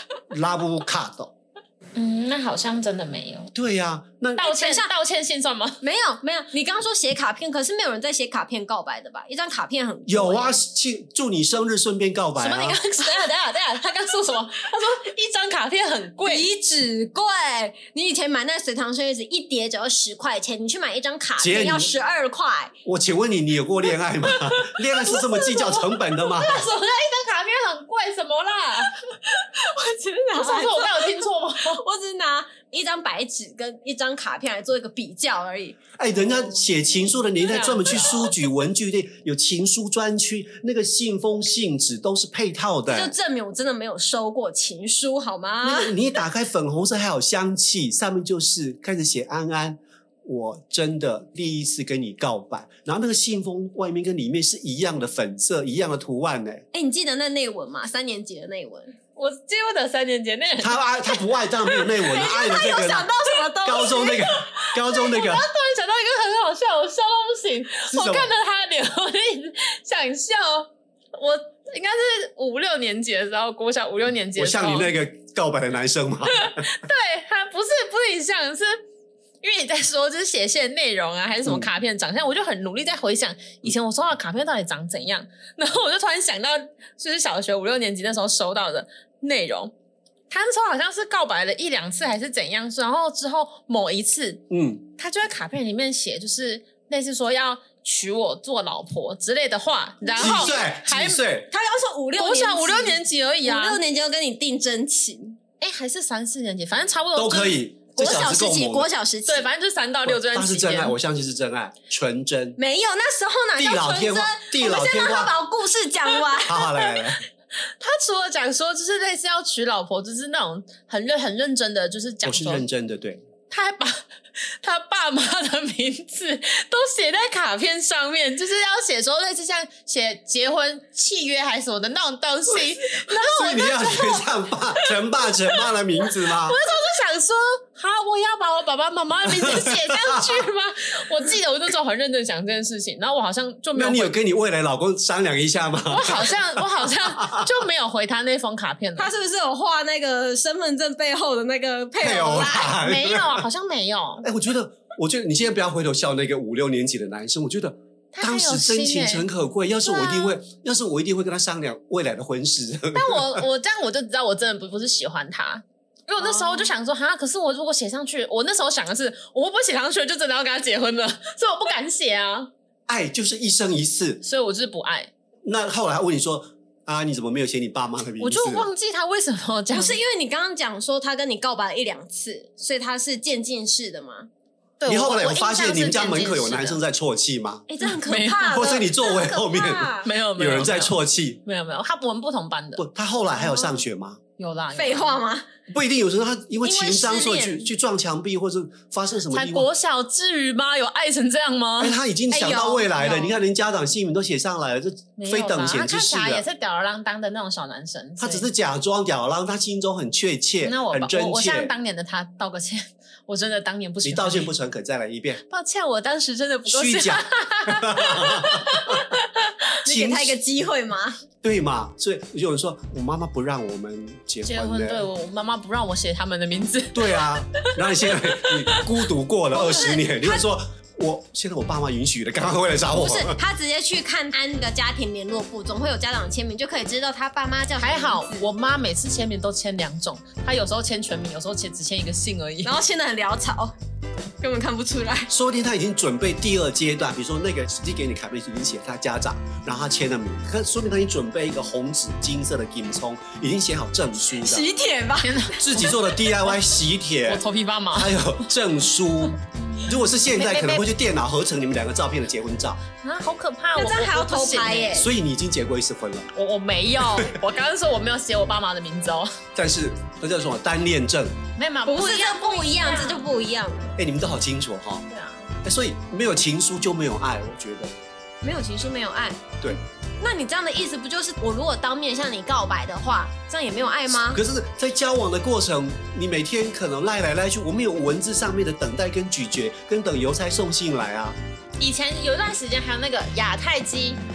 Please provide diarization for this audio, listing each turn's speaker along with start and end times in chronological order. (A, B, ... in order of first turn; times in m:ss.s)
0:00.3-0:01.3 A
0:02.0-0:03.5 B
0:03.5-0:04.4 A
0:04.4-0:04.9 C
0:04.4-0:05.8 B
0:05.8-0:10.6 C
0:10.1-0:12.8 A
0:12.4-0:16.5 B
0:16.2-0:22.7 C
0:21.4-0:21.9 A
0:22.8-0:26.7 A
0:24.2-0:28.9 B
0:29.1-0:36.6 C
0:30.4-0:31.8 B
0:36.0-0:43.1 A
0:37.4-0:38.3 B
0:42.9-0:46.1 C
0:45.6-0:56.6 A
0:56.7-0:58.9 C
0:59.2-1:01.9 B
1:00.6-1:03.1 A
1:02.0-1:04.2 C
1:03.6-1:05.5 A
1:03.9-1:14.9 B
1:07.8-1:08.3 A
1:14.4-1:16.7 A
1:16.3-1:18.7 B
1:19.4-1:29.7 B
1:21.4-1:21.7 A
1:30.3-1:34.4 B
1:34.5-1:34.8 A
1:35.0-1:41.2 B
1:40.0-1:40.6 C
1:40.2-1:41.5 A
1:41.5-1:45.4 C
1:42.1-1:43.8 B
1:45.6-1:47.7 B
1:47.1-1:48.9 A
1:48.0-1:49.5 C
1:49.3-1:51.0 B
1:50.0-1:52.6 A
1:52.6-1:56.6 C
1:53.6-1:55.3 A
1:56.4-1:57.2 A
1:56.7-1:57.0 B
1:57.8-2:02.6 B
2:02.2-2:03.2 A
2:03.5-2:03.9 B
2:04.6-2:24.1 B
2:13.1-2:16.6 A
2:19.2-2:20.4 A
2:23.7-2:27.5 A
2:25.9-2:29.1 B
2:29.0-2:32.8 C
2:32.0-2:33.4 A
2:32.7-2:34.2 B
2:34.2-2:43.4 A
2:38.1-2:39.3 B
2:39.8-2:40.3 B
2:42.9-2:52.5 B
2:46.2-2:46.7 C
2:52.9-2:54.2 A
2:54.2-2:55.1 B
2:55.4-2:58.7 A
2:58.2-3:00.0 B
2:59.7-3:04.3 C
3:04.8-3:06.8 B
3:04.9-3:07.7 A
3:07.7-3:10.1 C
3:07.8-3:08.8 B
3:08.5-3:11.4 A
3:10.0-3:12.8 B
3:12.8-3:14.2 A
3:13.4-3:13.8 C
3:14.4-3:15.2 B
3:14.7-3:15.4 C
3:15.7-3:19.7 A
3:16.6-3:17.7 B
3:19.3-3:22.0 B
3:21.8-3:26.4 A
3:22.3-3:23.4 C
3:25.2-3:28.5 B
3:28.2-3:31.7 A
3:30.6-3:34.5 B
3:34.0-3:35.4 A
3:35.5-3:39.6 B
3:36.7-3:39.1 A
3:39.8-3:41.2 C
3:39.8-3:40.4 A
3:41.4-3:45.0 A
3:44.4-3:48.8 B
3:46.9-3:53.4 A
3:49.5-3:50.4 C
3:52.9-3:58.5 C
3:57.8-4:02.8 B
4:02.6-4:03.7 C
4:04.4-4:05.3 C
4:05.3-4:14.7 A
4:14.3-4:15.6 C
4:15.2-4:16.6 B
4:15.6-4:22.8 A
4:17.2-4:18.5 B
4:19.2-4:20.9 B
4:23.0-4:25.0 B
4:23.8-4:25.1 C
4:24.9-4:26.3 A
4:26.3-4:29.3 B
4:29.5-4:31.4 A
4:31.6-4:33.3 B
4:31.8-4:34.0 C
4:34.0-4:35.0 A
4:35.1-4:35.5 B
4:35.6-4:37.9 A
4:38.4-4:44.4 C
4:44.3-4:51.4 A
4:51.8-4:54.2 B